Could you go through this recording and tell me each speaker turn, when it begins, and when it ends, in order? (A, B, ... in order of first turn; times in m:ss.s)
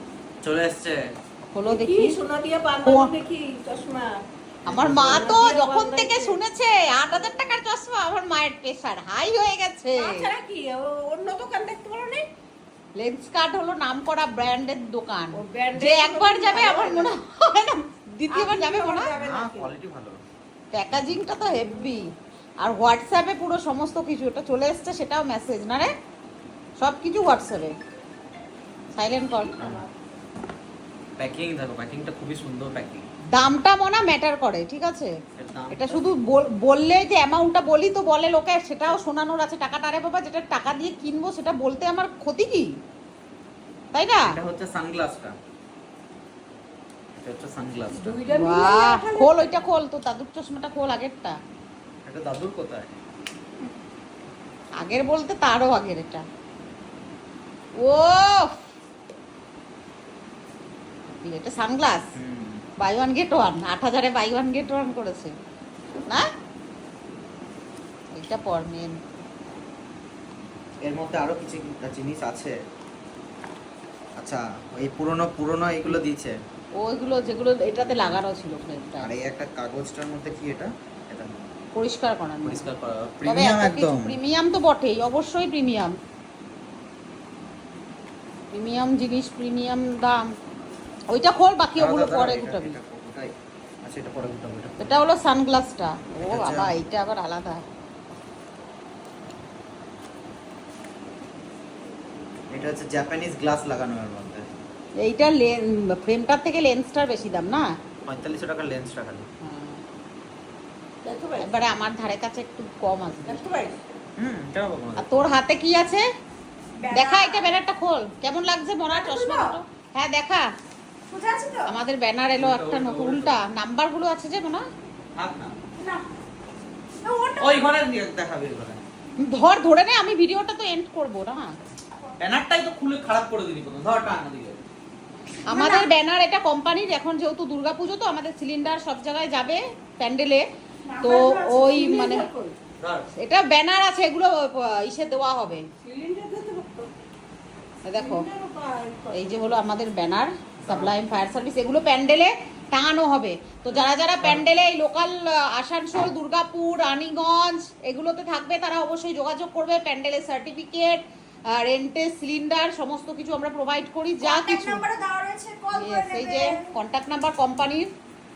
0:00.4-0:01.0 A
0:01.5-0:02.2 B
0:01.7-0:04.2 C
0:02.8-0:03.1 B
0:04.7-0:10.3 B
0:04.7-0:05.4 A
0:04.8-0:06.4 C
0:09.9-0:12.3 C
0:13.0-0:19.1 B
0:15.4-0:17.2 C
0:18.3-0:19.7 C
0:19.2-0:20.2 A
0:20.7-0:22.1 B
0:22.6-0:25.9 B
0:26.8-0:27.7 B
0:29.0-0:29.5 B
0:29.6-0:29.9 C
0:31.2-0:33.0 A
0:33.3-0:35.1 B
0:35.4-0:36.1 A
0:35.7-0:42.7 B
0:43.9-0:44.3 B
0:44.3-0:45.4 A
0:47.2-0:48.2 A
0:47.9-0:49.6 C
0:48.3-0:51.4 B
0:52.0-0:52.9 A
0:54.8-0:56.2 B
0:57.8-0:58.6 B
1:01.2-1:02.1 B
1:02.2-1:02.6 A
1:02.8-1:05.3 B
1:08.1-1:09.0 B
1:10.8-1:12.6 A
1:14.2-1:16.4 A
1:16.8-1:19.1 B
1:17.8-1:18.2 A
1:19.0-1:21.5 A
1:21.8-1:22.7 B
1:22.4-1:24.2 A
1:23.2-1:25.9 B
1:28.5-1:30.3 B
1:31.1-1:32.8 B
1:31.8-1:33.3 A
1:33.8-1:35.0 A
1:34.8-1:37.6 B
1:36.2-1:36.8 A
1:42.5-1:44.5 A
1:45.0-1:47.6 B
1:48.1-1:49.3 A
1:49.4-1:49.8 B
1:51.0-1:51.5 C
1:51.4-1:53.4 B
1:53.3-1:53.8 C
1:54.2-1:55.1 A
1:55.0-1:56.0 B
1:56.8-1:57.6 C
1:56.9-2:00.5 B
1:58.9-1:59.6 C
2:01.1-2:01.7 C
2:01.7-2:04.6 B
2:02.4-2:03.4 A
2:05.2-2:05.6 A
2:05.8-2:06.1 C
2:07.0-2:07.6 C
2:07.4-2:08.8 A
2:09.2-2:11.5 B
2:12.2-2:14.6 A
2:15.4-2:15.9 C
2:15.5-2:20.4 B
2:20.9-2:22.6 C
2:21.0-2:22.3 B
2:22.8-2:23.1 A
2:23.2-2:25.6 B
2:25.8-2:26.9 C
2:27.8-2:28.2 B
2:28.0-2:29.4 C
2:29.1-2:44.8 B
2:30.6-2:30.9 A
2:33.7-2:34.4 A
2:44.2-2:46.7 C
2:45.7-2:47.9 B